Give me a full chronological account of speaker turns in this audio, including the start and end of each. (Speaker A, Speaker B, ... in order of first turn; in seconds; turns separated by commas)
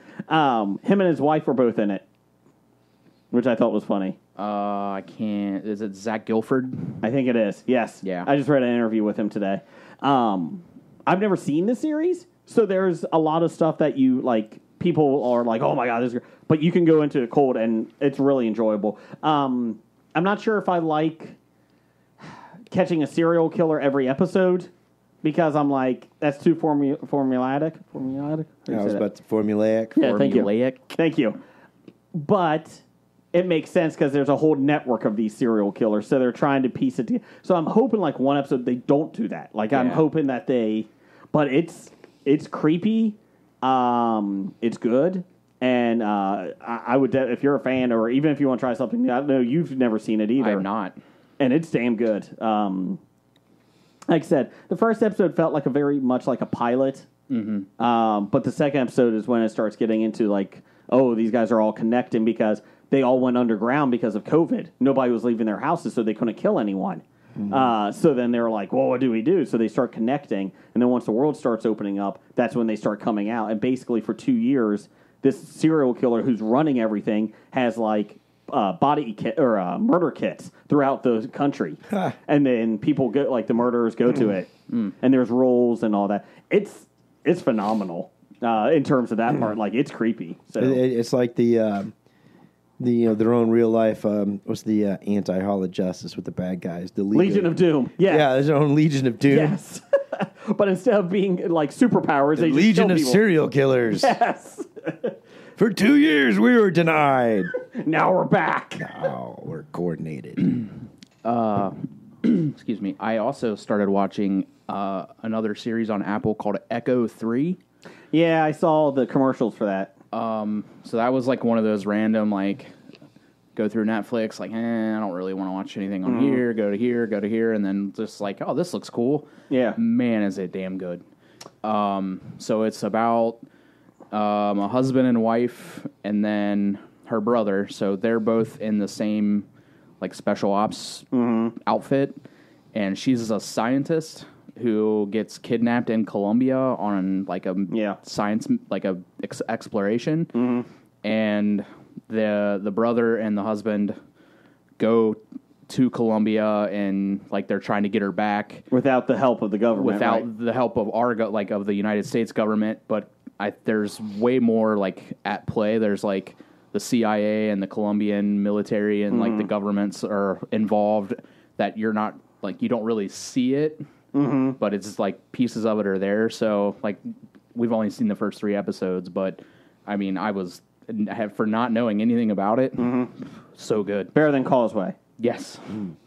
Speaker A: 0.3-2.0, Speaker A: 3.3-4.2, Speaker B: 4.4-7.0, Speaker A: 7.0-21.4, Speaker B: 8.0-8.3, Speaker A: 22.7-24.7, Speaker A: 25.2-29.0, Speaker C: 28.7-29.9, Speaker A: 29.9-31.4, Speaker B: 30.0-30.9, Speaker A: 32.1-32.8, Speaker A: 33.3-50.6, Speaker B: 39.7-40.0, Speaker B: 50.4-51.0, Speaker A: 51.4-53.0, Speaker A: 54.1-57.0, Speaker B: 57.3-57.7, Speaker A: 57.8-90.8, Speaker C: 67.4-67.7, Speaker C: 81.9-82.1, Speaker C: 90.6-91.9, Speaker C: 92.8-99.6, Speaker A: 97.1-98.3, Speaker A: 99.3-103.2, Speaker C: 102.3-104.2, Speaker A: 104.0-105.1, Speaker C: 105.6-107.5, Speaker A: 107.8-109.0, Speaker C: 108.8-110.5, Speaker B: 111.2-117.6, Speaker A: 118.1-119.9, Speaker B: 120.1-122.7, Speaker B: 123.5-131.0, Speaker A: 126.0-126.4, Speaker A: 129.5-129.8, Speaker B: 131.6-133.4, Speaker B: 134.1-139.4, Speaker B: 140.0-142.2, Speaker A: 141.1-141.5, Speaker B: 142.7-150.3, Speaker A: 147.7-148.0, Speaker A: 150.3-150.7, Speaker B: 151.0-154.0, Speaker B: 154.8-158.6, Speaker A: 158.7-160.2, Speaker B: 159.7-173.8, Speaker A: 169.1-169.5, Speaker A: 174.1-174.6, Speaker B: 174.6-177.0, Speaker B: 177.5-183.0, Speaker A: 182.8-183.1, Speaker B: 183.5-184.1, Speaker A: 184.1-184.9, Speaker B: 185.2-185.8